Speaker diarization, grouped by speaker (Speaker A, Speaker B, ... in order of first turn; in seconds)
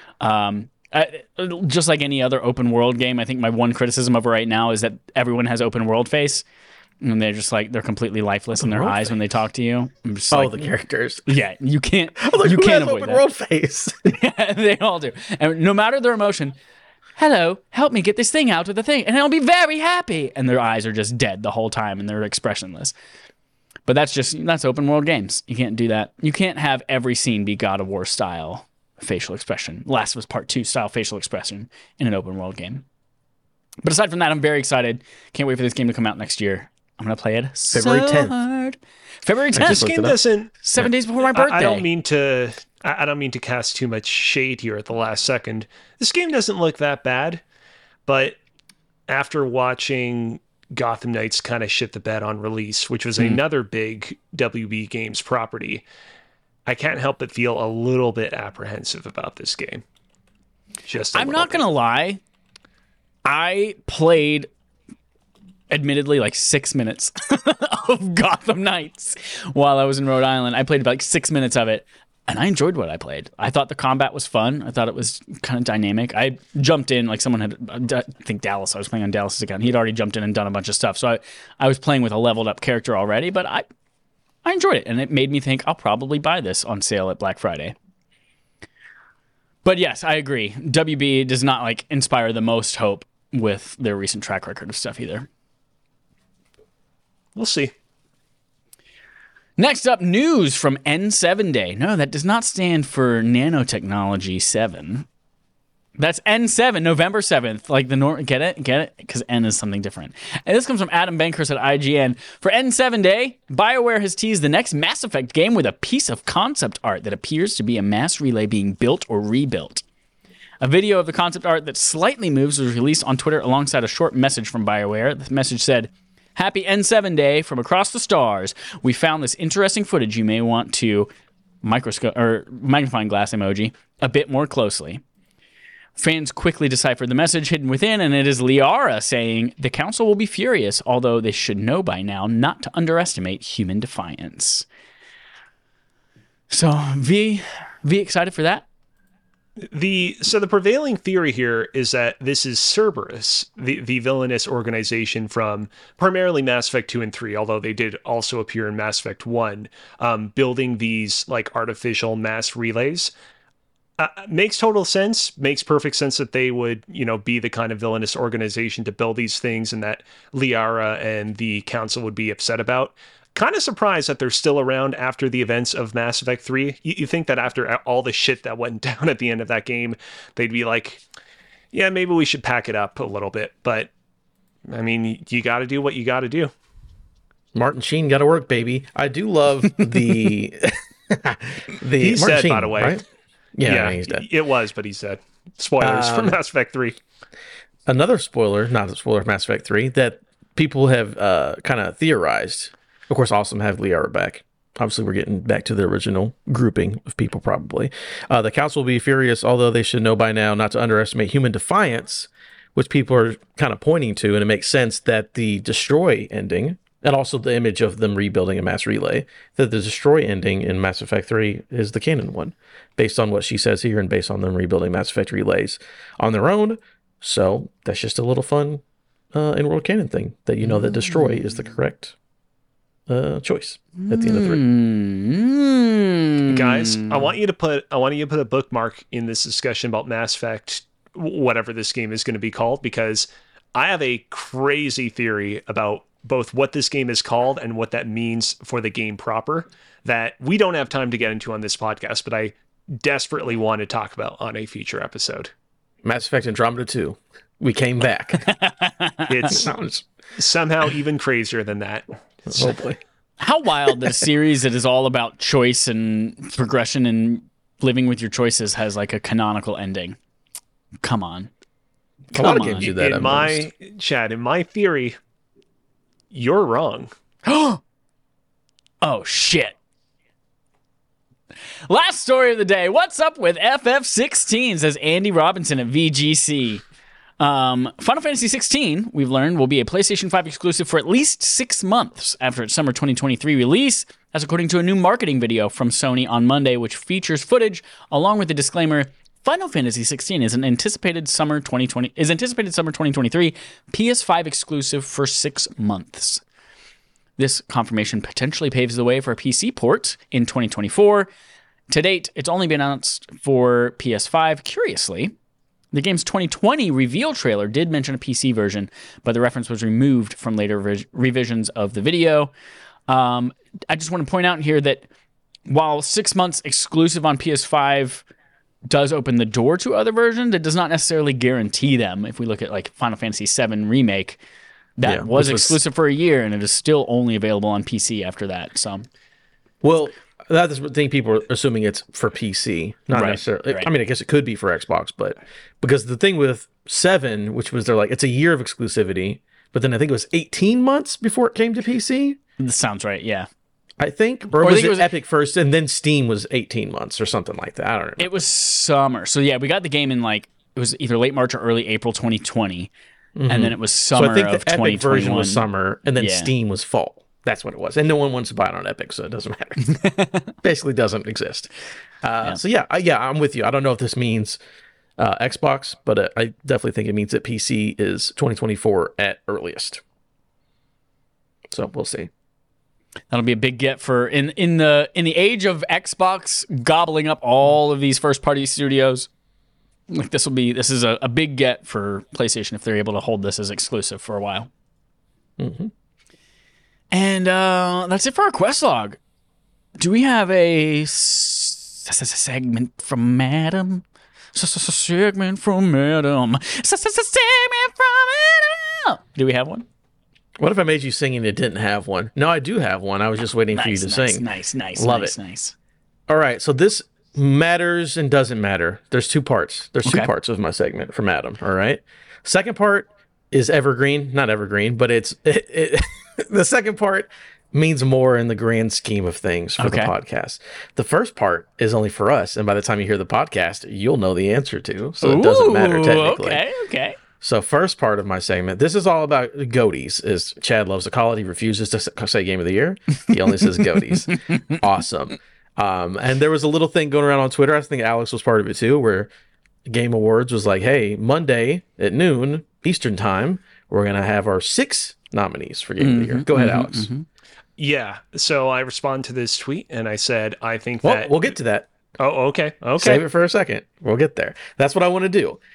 Speaker A: 0.2-6.4, 7.0-10.7, 11.2-13.2, 14.1-16.6, 17.1-22.9, 23.9-32.8, 33.8-39.9, 40.6-41.9, 61.1-62.2, 63.2-64.5, 65.7-83.6, 84.4-87.7, 89.6-95.3, 99.6-105.1, 106.0-119.8, 120.6-131.1, 131.6-135.0, 136.0-144.7, 146.5-148.7, 234.0-237.3, 258.4-259.5, 263.4-270.2, 271.0-271.5, 272.4-272.9, 277.4-277.8, 279.0-279.8, 281.9-286.8, 287.4-306.4, 307.4-311.3, 311.9-315.3, 315.9-322.5, 323.1-325.1, 325.7-328.2, 328.9-334.4, 335.0-339.1, 343.1-343.9, 352.6-353.5, 354.6-355.1, 358.2-362.9, 363.5-365.6, 366.2-366.5, 369.8-370.5, 383.3-389.3, 390.1-394.7, 397.1-399.2, 400.0-409.9, 413.8-415.7, 420.0-420.3, 429.8-430.1, 435.2-437.2, 444.3-444.8, 456.0-457.2
Speaker B: 8.6-9.2, 10.3-11.3, 12.2-14.1, 37.7-38.3, 39.5-40.1, 187.5-193.0, 193.6-194.2, 195.8-196.4, 197.9-228.8, 229.3-232.1, 233.1-234.6, 256.0-258.5, 259.5-260.0, 262.5-263.0, 272.3-273.7, 335.0-335.8, 339.8-352.4, 354.0-358.3, 363.4-369.8, 370.6-371.7, 372.2-374.6, 375.2-380.0, 381.7-382.3, 395.6-395.9, 410.6-414.4, 415.0-415.3, 416.3-436.6, 437.4-449.3, 449.9-457.1, 461.0-461.9, 463.0-465.6
Speaker C: 39.6-40.6, 41.3-47.4, 48.1-48.4, 49.1-55.8, 56.6-59.8, 60.9-61.6, 97.3-97.7, 149.7-163.1, 164.0-181.0, 181.7-183.9, 184.7-186.5, 192.0-193.0, 193.6-197.0, 236.5-255.5, 259.3-259.7, 260.4-262.7, 272.6-275.2, 276.3-277.1, 457.8-461.4, 462.2-463.2